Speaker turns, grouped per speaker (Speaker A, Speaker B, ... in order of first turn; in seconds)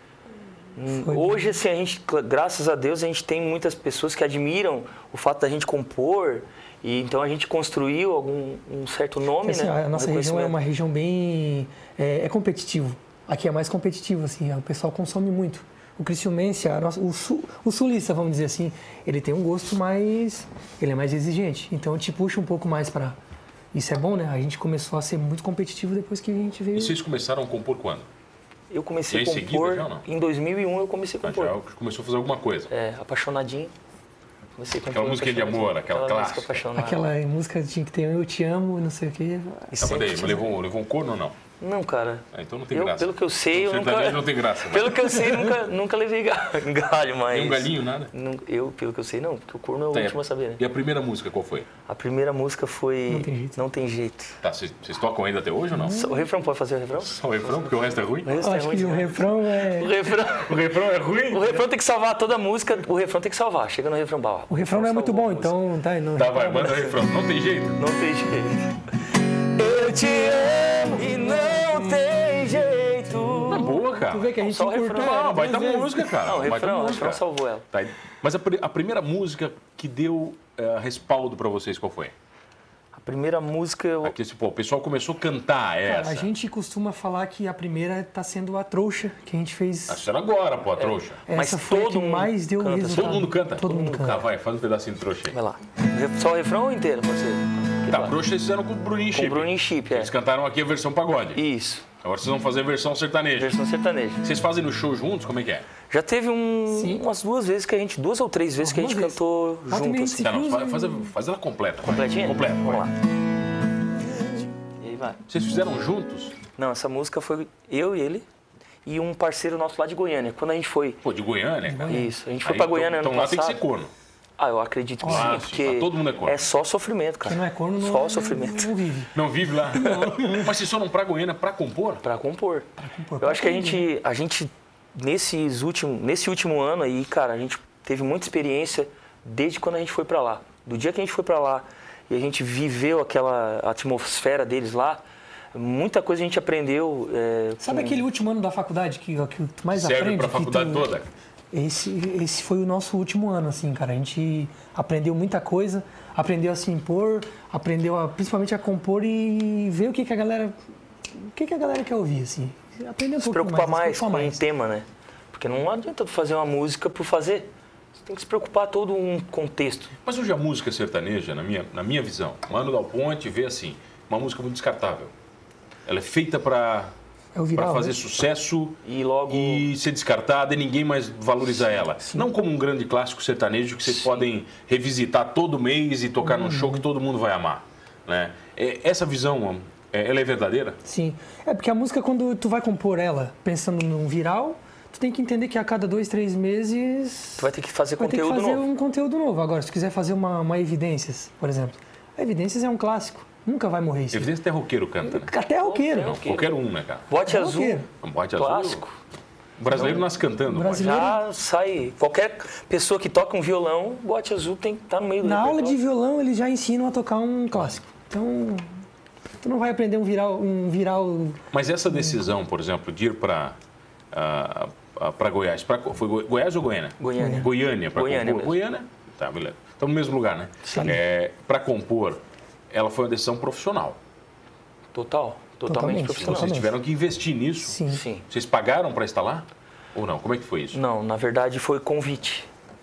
Speaker A: 0.8-10.6, 28.7-31.6, 32.7-33.7, 34.5-37.1, 39.8-40.3, 41.6-50.6, 51.9-54.4, 55.8-60.7, 61.3-65.6, 67.8-68.7, 69.5-73.8, 74.4-75.4, 76.2-77.6, 82.9-84.1, 90.8-94.2, 95.3-98.2, 99.1-100.1, 101.3-101.9, 103.4-104.2, 105.9-110.3, 111.8-112.9, 114.3-115.2, 116.5-118.2, 118.8-121.0, 121.9-123.6, 124.4-128.8, 132.0-132.7, 133.2-145.0, 145.5-148.0, 163.2-167.5, 168.0-169.9, 178.8-179.7, 183.9-184.2, 197.4-198.7, 205.6-206.5, 207.1-207.8, 208.3-208.9, 210.7-215.8, 227.0-228.6, 230.6-231.0, 234.9-236.5, 237.9-238.2, 240.7-242.5
Speaker B: 0.9-1.5, 9.4-23.2, 23.7-27.0, 36.7-40.5, 53.1-53.6, 55.7-56.3, 58.4-59.9, 64.5-66.9, 71.1-72.0, 73.4-76.2, 85.8-90.0, 91.2-94.2, 106.7-107.0, 108.6-111.1, 121.6-122.1, 125.0-125.4, 127.2-130.5, 132.8-133.9, 147.6-150.9, 151.5-160.5, 161.2-164.4, 177.3-178.0, 186.2-186.8, 190.8-204.3, 205.0-206.2, 207.3-207.9, 209.7-211.2, 215.2-218.7, 219.4-222.2, 227.2-227.5, 235.6-236.8, 237.6-238.0
Speaker C: 26.7-28.1, 29.1-30.0, 31.2-32.7, 34.9-36.5, 39.8-41.4, 42.3-45.1, 47.3-48.1, 49.9-51.7, 54.4-56.0, 57.0-58.4, 60.3-61.6, 66.1-67.8, 73.5-82.1, 84.0-86.3, 89.9-91.2, 92.8-95.3, 97.9-101.4, 102.0-103.6, 104.2-105.7, 110.2-112.9, 115.3-116.3, 121.0-123.9, 125.0-126.4, 129.1-132.0, 149.7-151.1, 170.0-175.1, 175.8-176.9, 177.5-190.8, 204.1-205.3, 206.0-207.1, 208.0-208.8, 209.6-211.0, 221.5-223.6, 224.1-234.0, 236.1-240.8